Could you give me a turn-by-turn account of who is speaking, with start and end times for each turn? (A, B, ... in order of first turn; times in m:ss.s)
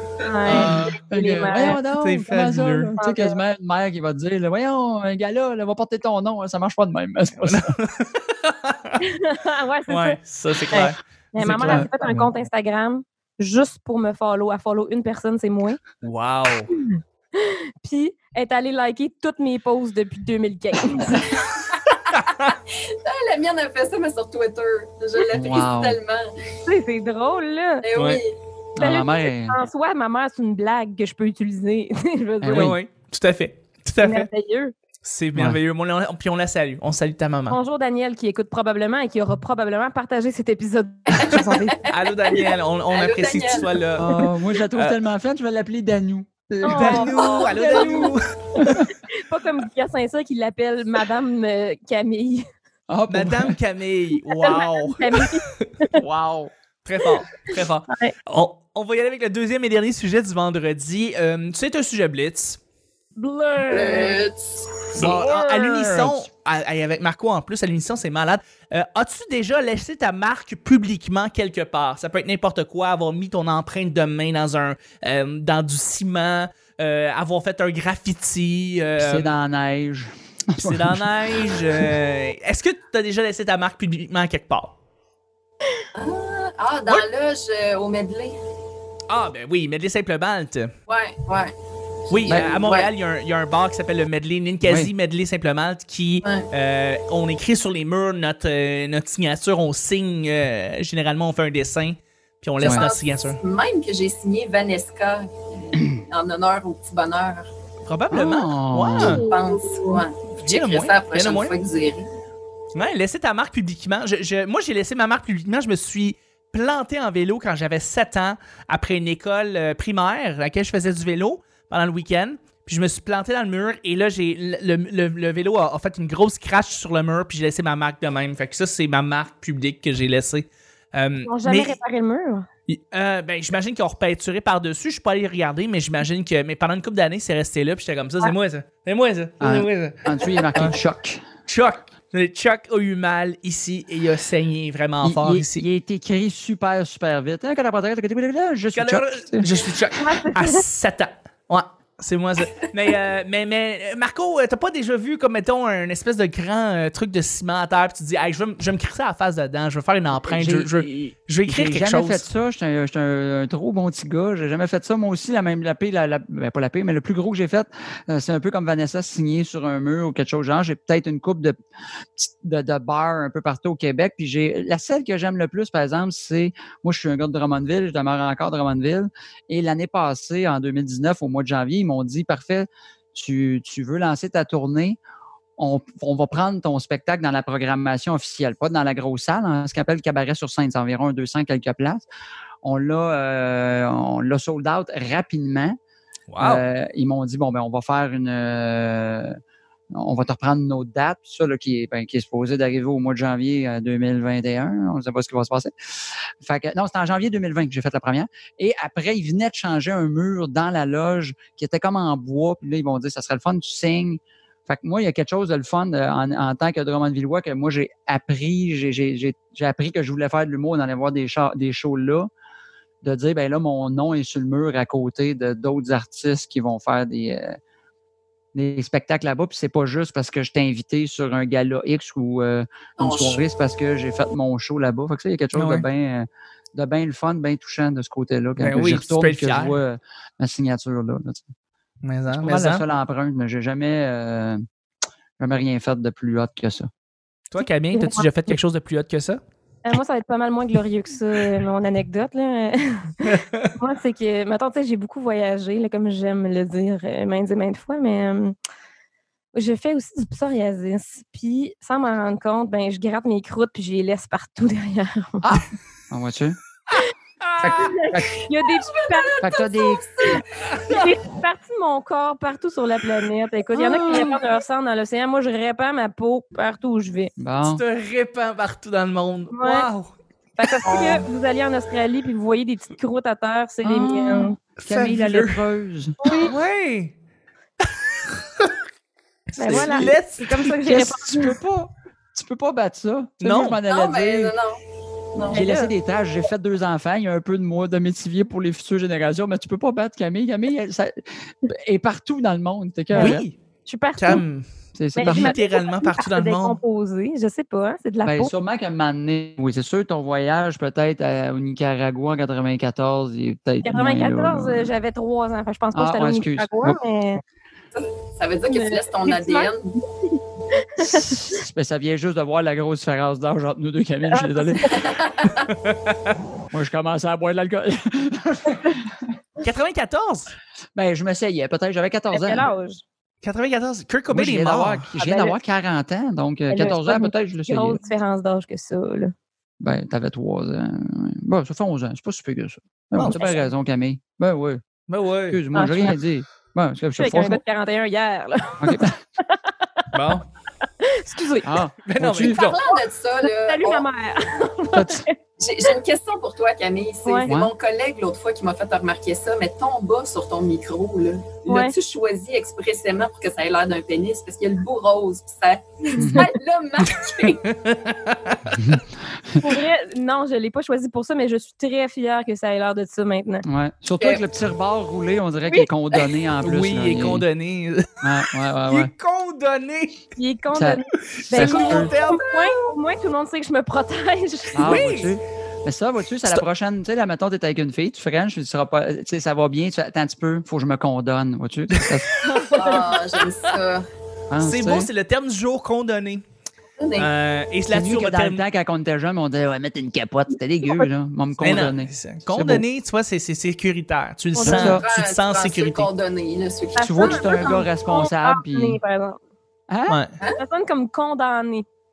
0:00.2-0:01.8 A
0:00.4-0:00.8 B
0:00.5-0:07.8 C
0:00.5-0:00.9 D
0:01.9-0:03.0 D
0:02.3-0:03.4 A
0:07.4-0:09.0 D
0:09.0-0:10.2 A
0:09.9-0:12.3 D
0:10.7-0:15.8 A
0:11.4-0:11.9 C
0:16.0-0:16.7 D
0:16.7-0:21.3 A
0:21.4-0:21.8 B
0:22.1-0:22.5 D
0:22.4-0:26.3 B
0:25.3-0:26.0 C
0:26.7-0:27.9 A
0:27.8-0:28.4 B
0:28.0-0:28.2 D
0:28.8-0:29.6 C
0:28.8-0:32.7 A
0:32.4-0:32.8 C
0:32.5-0:34.3 D
0:34.0-0:34.7 A
0:35.0-0:37.6 D
0:37.5-0:41.8 A
0:41.1-0:43.8 B
0:41.9-0:45.0 D
0:44.0-0:48.2 C
0:46.6-0:52.4 A
0:46.7-0:48.8 D
0:52.9-0:53.6 C
0:53.1-0:55.3 D
0:54.3-0:56.0 A
0:56.0-0:56.5 C
0:56.8-1:02.6 D
1:03.2-1:04.2 A
1:03.7-1:05.0 B
1:05.0-1:19.3 D
1:05.0-1:05.3 C
1:05.0-1:06.0 A
1:05.9-1:06.2 C
1:19.0-1:21.1 C
1:20.6-1:24.8 D
1:26.0-1:28.4 B
1:29.1-1:30.7 D
1:30.9-1:31.5 B
1:32.1-1:43.4 D
1:32.1-1:32.9 B
1:34.6-1:34.9 C
1:36.2-1:36.5 B
1:42.6-1:47.5 B
1:42.6-1:42.9 C
1:47.9-1:49.2 D
1:48.1-1:49.2 C
1:48.9-1:50.0 A
1:49.3-1:52.1 B
1:50.4-1:51.6 D
1:52.7-2:11.8 D
2:11.2-2:12.5 A
2:12.7-2:20.8 D
2:19.4-2:21.2 C
2:21.5-2:25.6 D
2:25.0-2:29.5 C
2:28.7-2:42.3 D
2:30.0-2:30.6 A
2:40.3-2:51.6 C
2:52.2-3:05.0 C
3:05.6-3:12.0 C
3:12.6-3:15.8 C
3:16.3-3:16.6 D
3:16.4-3:19.4 C
3:19.9-3:25.7 C
3:26.4-3:42.3 C
3:43.0-3:47.6 C
3:48.5-4:01.5 C
3:53.0-3:53.4 B
3:55.6-3:55.8 D
3:58.6-3:59.8 D
4:02.0-4:02.8 D
4:02.3-4:04.6 C
4:05.4-4:06.9 C
4:07.5-4:09.4 D
4:07.6-4:08.3 A
4:09.8-4:18.6 A
4:13.2-4:13.7 D
4:19.5-4:25.5 A
4:25.4-4:26.6 C
4:27.4-4:27.7 D
4:27.6-4:28.5 C
4:27.6-4:29.5 A
4:28.8-4:30.4 B
4:29.4-4:30.0 C
4:30.2-4:37.3 A
4:33.7-4:34.4 C
4:37.4-4:37.8 C
4:37.6-4:40.1 D
4:39.5-4:39.9 A
4:40.6-4:44.6 A
4:40.7-4:41.2 D
4:43.8-4:46.4 C
4:44.8-4:45.6 D
4:46.2-4:46.5 A
4:46.4-4:47.1 D
4:48.2-4:48.7 D
4:49.5-4:50.8 D
4:49.6-4:51.6 A
4:49.7-4:50.1 C
4:50.8-4:54.5 C
4:53.4-4:53.8 D
4:53.9-4:54.8 B
4:55.4-4:55.6 B
4:55.5-5:03.4 C
4:55.5-4:55.9 A
5:03.1-5:04.4 A
5:03.2-5:03.6 D
5:04.2-5:04.7 D
5:05.0-5:05.6 C
5:05.2-5:08.5 A
5:05.2-5:06.8 D
5:08.2-5:14.9 C
5:13.8-5:17.4 A
5:15.9-5:17.0 C
5:17.9-5:20.0 B
5:18.7-5:21.5 A
5:21.0-5:25.0 C
5:24.3-5:25.1 A
5:24.9-5:25.7 B
5:25.8-5:26.3 D
5:26.7-5:29.1 C
5:29.6-5:30.5 D
5:31.0-5:32.7 C
5:32.3-5:33.0 A
5:33.4-5:35.1 D
5:34.3-5:38.0 C
5:35.2-5:35.6 A
5:36.7-5:39.3 A
5:39.8-5:44.8 C
5:43.2-5:43.6 D
5:45.1-5:45.6 D
5:45.5-5:47.6 C
5:45.7-5:46.2 A
5:47.2-5:50.1 A
5:48.8-5:49.2 C
5:50.1-5:50.5 D
5:51.0-5:51.8 A
5:51.6-5:52.8 C
5:52.0-5:52.8 D
5:52.4-5:54.0 B
5:53.4-5:55.2 A
5:54.9-5:55.3 C
5:55.6-6:07.6 B
5:57.3-5:57.5 A
6:01.7-6:01.9 A
6:06.1-6:06.4 A
6:06.2-6:06.5 C
6:07.1-6:08.8 D
6:09.6-6:13.6 A
6:13.7-6:17.4 C
6:16.6-6:20.3 D
6:18.2-6:19.1 C
6:20.4-6:25.0 A
6:20.7-6:22.1 C
6:21.4-6:22.9 D
6:24.8-6:32.3 C
6:24.8-6:25.4 D
6:32.0-6:32.8 D
6:32.4-6:33.1 A
6:32.7-6:34.0 B
6:33.4-6:33.7 D
6:34.5-6:35.1 C
6:34.6-6:36.4 D
6:37.0-6:37.3 B
6:37.2-6:38.6 D
6:37.9-6:42.8 C
6:41.6-6:46.1 D
6:44.6-6:44.9 A
6:44.6-6:45.0 C
6:44.8-6:47.8 B
6:47.0-6:49.4 A
6:47.0-6:49.0 C
6:49.9-6:50.2 C
6:50.1-6:50.4 D
6:50.6-6:51.9 A